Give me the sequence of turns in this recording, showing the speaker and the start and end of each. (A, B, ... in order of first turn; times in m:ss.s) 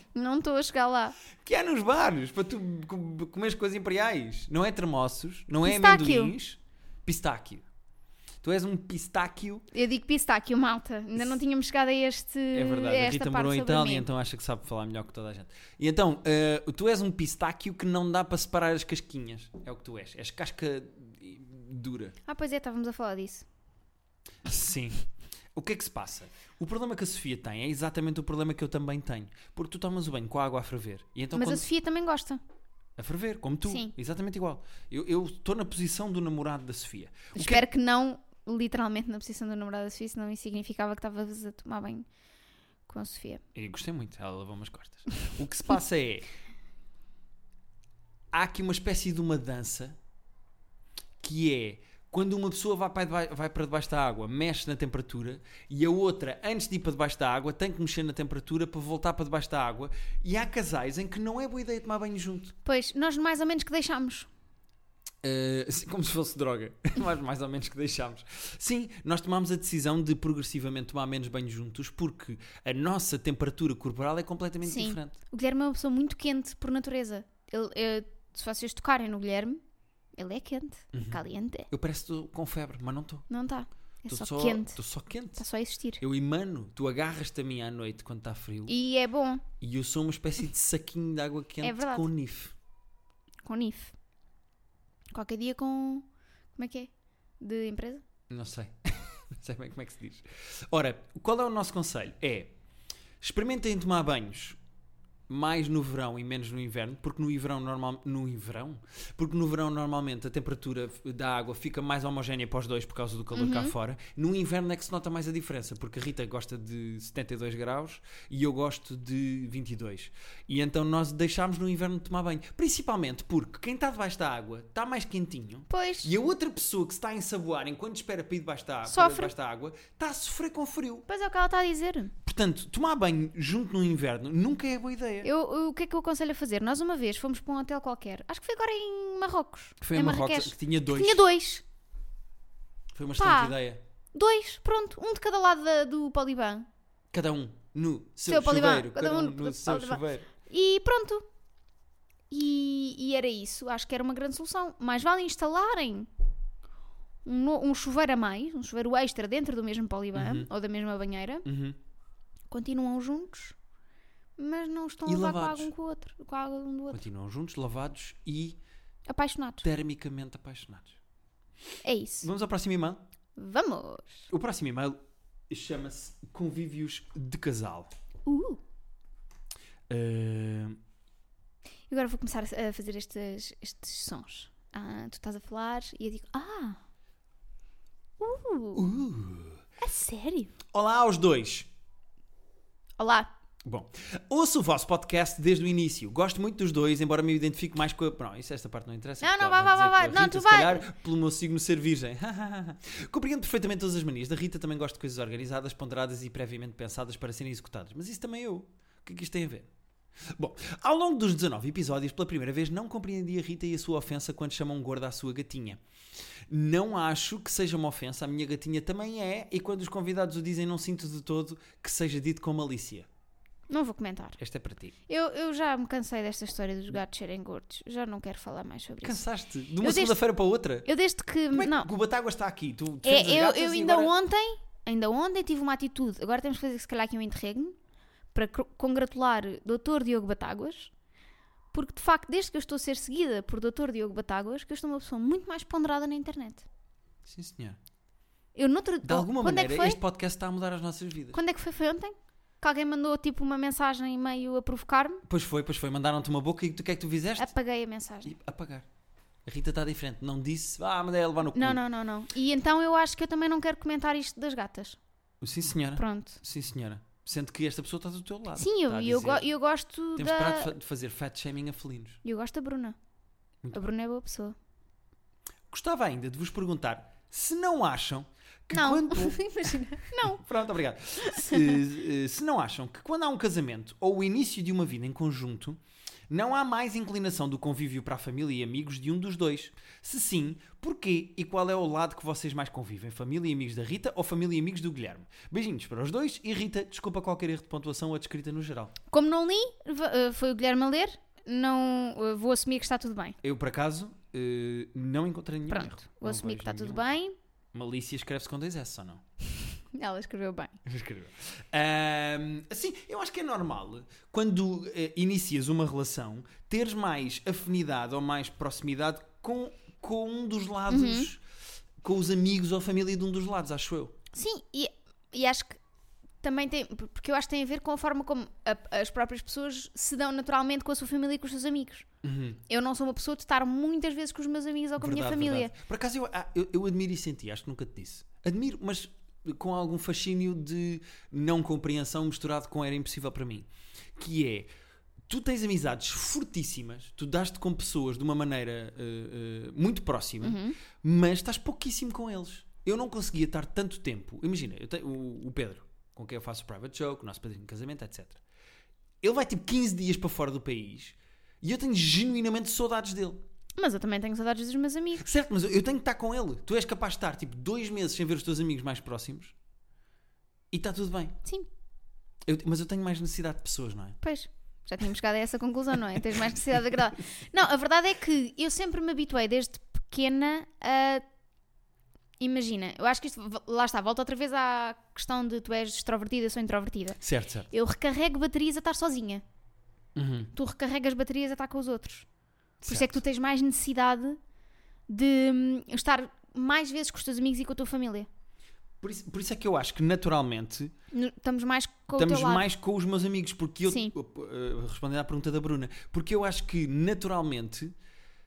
0:00.1-0:01.2 A
0:01.4-0:07.6 B
0:05.6-0:06.3 A
0:08.4-0:09.6 B
0:09.7-0:14.0 A
0:12.5-0:22.2 B
0:22.2-0:23.4 A
0:24.4-0:31.6 B
0:31.3-0:32.4 A
0:33.0-0:37.6 B
0:33.7-0:33.9 A
0:37.3-0:42.0 A
0:42.9-0:43.4 A
0:43.5-0:46.3 B
0:48.3-0:50.0 B
0:51.2-1:02.5 B
1:02.6-1:04.3 A
1:05.2-1:15.2 B
1:14.6-1:19.6 A
1:20.1-1:21.7 A
1:20.9-1:23.2 B
1:23.3-1:24.8 A
1:24.1-1:25.4 B
1:25.4-1:26.0 A
1:26.0-1:28.7 B
1:28.7-1:29.4 A
1:29.6-1:32.5 B
1:31.6-1:32.1 A
1:33.4-1:33.9 A
1:35.1-1:38.0 A
1:38.3-1:42.5 B
1:43.2-1:44.6 B
1:45.3-2:11.1 B
1:53.3-1:53.7 A
2:05.7-2:06.1 A
2:08.8-2:09.3 A
2:11.1-2:12.1 A
2:12.2-2:15.3 B
2:15.2-2:21.6 A
2:19.8-2:21.2 B
2:22.9-2:23.8 B
2:23.2-2:23.6 A
2:24.1-2:26.7 A
2:27.1-2:30.3 B
2:28.3-2:31.2 A
2:32.3-2:36.1 A
2:37.2-2:41.4 A
2:40.1-2:40.5 B
2:41.4-2:41.8 B
2:42.5-2:43.6 A
2:44.4-2:47.0 A
2:45.0-2:45.7 B
2:46.9-2:48.6 B
2:49.1-2:49.6 A
2:49.6-2:51.0 B
2:51.8-2:52.3 A
2:52.2-2:53.0 B
2:53.4-2:54.3 A
2:54.3-2:55.0 B
2:55.5-2:57.9 B
2:58.2-2:58.6 A
2:59.9-3:00.8 B
3:01.9-3:06.8 A
3:08.2-3:08.9 A
3:08.7-3:09.6 B
3:09.8-3:10.5 A
3:10.7-3:11.7 B
3:13.0-3:13.3 A
3:13.6-3:29.7 B
3:19.2-3:20.9 A
3:30.2-3:35.8 B
3:36.5-3:43.1 B
3:43.7-3:44.4 A
3:44.4-3:44.9 B
3:45.1-3:49.2 A
3:49.0-3:50.9 B
3:49.8-3:50.2 A
3:50.8-3:51.9 A
3:51.5-3:54.1 B
3:53.0-3:57.8 A
3:58.3-4:00.9 A
4:01.7-4:06.7 A
4:07.2-4:07.8 B
4:08.5-4:10.0 A
4:09.0-4:11.4 B
4:11.3-4:15.2 A
4:15.2-4:17.5 B
4:17.4-4:18.3 A
4:18.2-4:18.8 B
4:19.4-4:21.8 B
4:21.5-4:25.0 A
4:25.4-4:29.4 B
4:26.0-4:26.4 A
4:28.6-4:30.7 A
4:30.2-4:32.2 B
4:32.2-4:33.0 A
4:33.7-4:34.6 A
4:35.7-4:58.9 B
4:38.7-4:40.4 A
4:41.2-4:41.8 A
4:59.1-5:03.4 A
5:03.4-5:07.1 B
5:05.7-5:07.3 A
5:07.7-5:09.2 B
5:09.6-5:10.8 A
5:10.8-5:21.4 B
5:20.9-5:21.3 A
5:22.0-5:24.2 B
5:24.3-5:25.8 A
5:26.4-5:32.0 A
5:32.2-5:32.6 B
5:32.7-5:35.7 A
5:35.0-5:44.7 B
5:45.3-5:58.4 B
5:50.4-5:50.8 A
5:59.2-6:03.4 B
6:03.8-6:05.2 A
6:05.2-6:09.5 B
6:10.7-6:11.4 B
6:12.4-6:14.2 B
6:14.2-6:21.2 A
6:22.4-6:29.4 A
6:27.2-6:27.7 B
6:30.1-6:30.5 B
6:30.5-6:32.2 A
6:32.8-6:34.4 A
6:32.8-6:33.2 B
6:35.1-6:38.3 A
6:39.0-6:40.9 B
6:41.1-6:42.7 A
6:42.2-6:47.9 B
6:43.8-6:44.1 A